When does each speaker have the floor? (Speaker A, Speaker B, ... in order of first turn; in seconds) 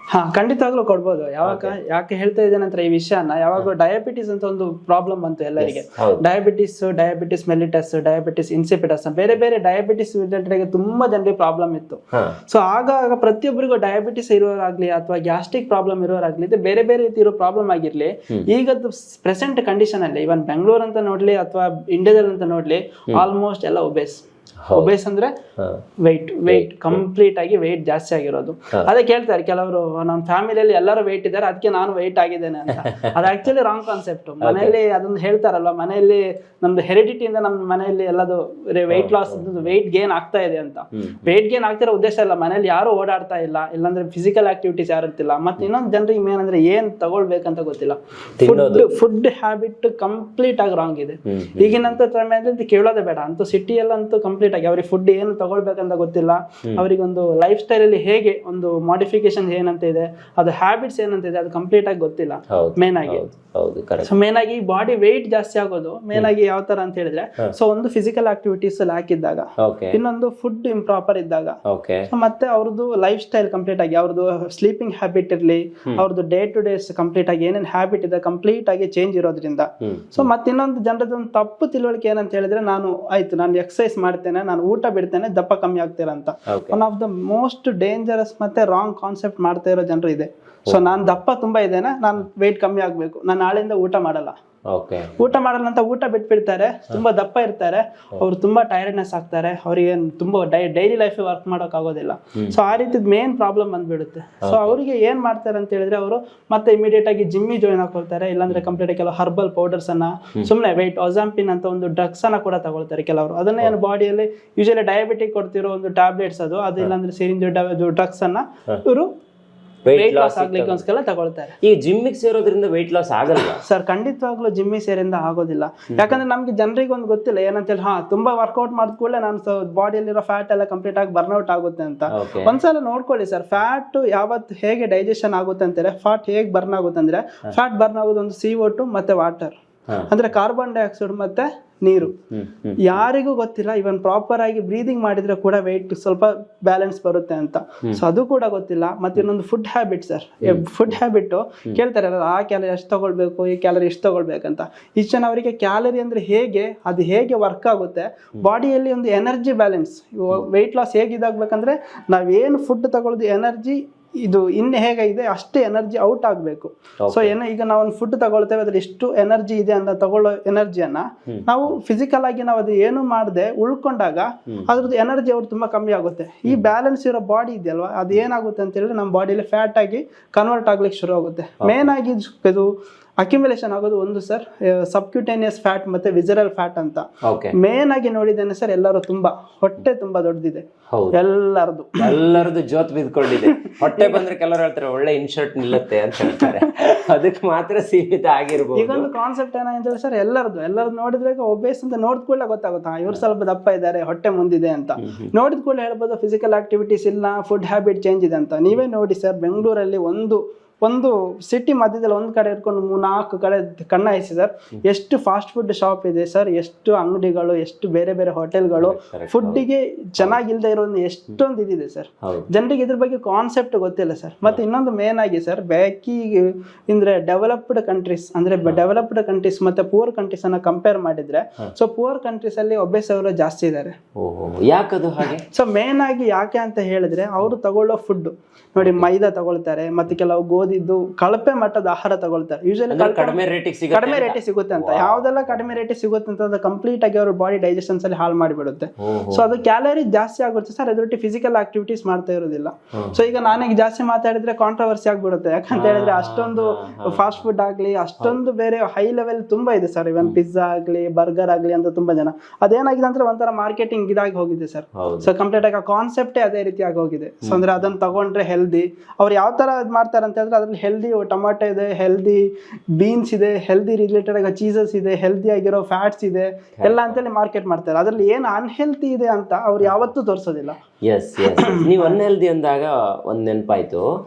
Speaker A: 0.1-25.3, 26.0-63.3, 64.0-71.6, 72.1-94.3, 95.2-119.1, 119.9-121.5, 123.7-139.6, 140.1-142.2, 142.8-182.7, 183.2-187.0, 187.6-192.4, 193.4-194.2, 196.3-196.7, 198.8-234.0, 235.5-243.4, 243.9-272.4, 273.0-280.8, 281.4-282.2
Speaker B: 1.4-1.8, 5.6-6.2, 24.6-24.9, 25.6-25.8, 26.5-27.0, 32.8-33.1, 34.4-34.8, 38.9-39.7, 41.0-41.3, 48.4-48.9, 51.3-52.0, 62.5-64.1, 69.6-70.0, 71.7-72.1, 79.8-80.3, 86.5-86.8, 90.7-91.1, 94.7-95.3, 104.4-104.8, 119.8-120.8, 121.6-123.6, 125.9-126.2, 132.1-132.6, 142.3-143.0, 150.4-150.9, 167.0-167.3, 187.2-187.6, 190.9-191.2, 192.0-199.1, 205.0-205.3, 218.8-219.6, 234.2-235.4, 238.8-239.1, 242.9-245.7, 249.0-249.5, 252.9-253.2, 255.7-257.4, 265.0-265.3, 276.8-277.2, 281.0-284.1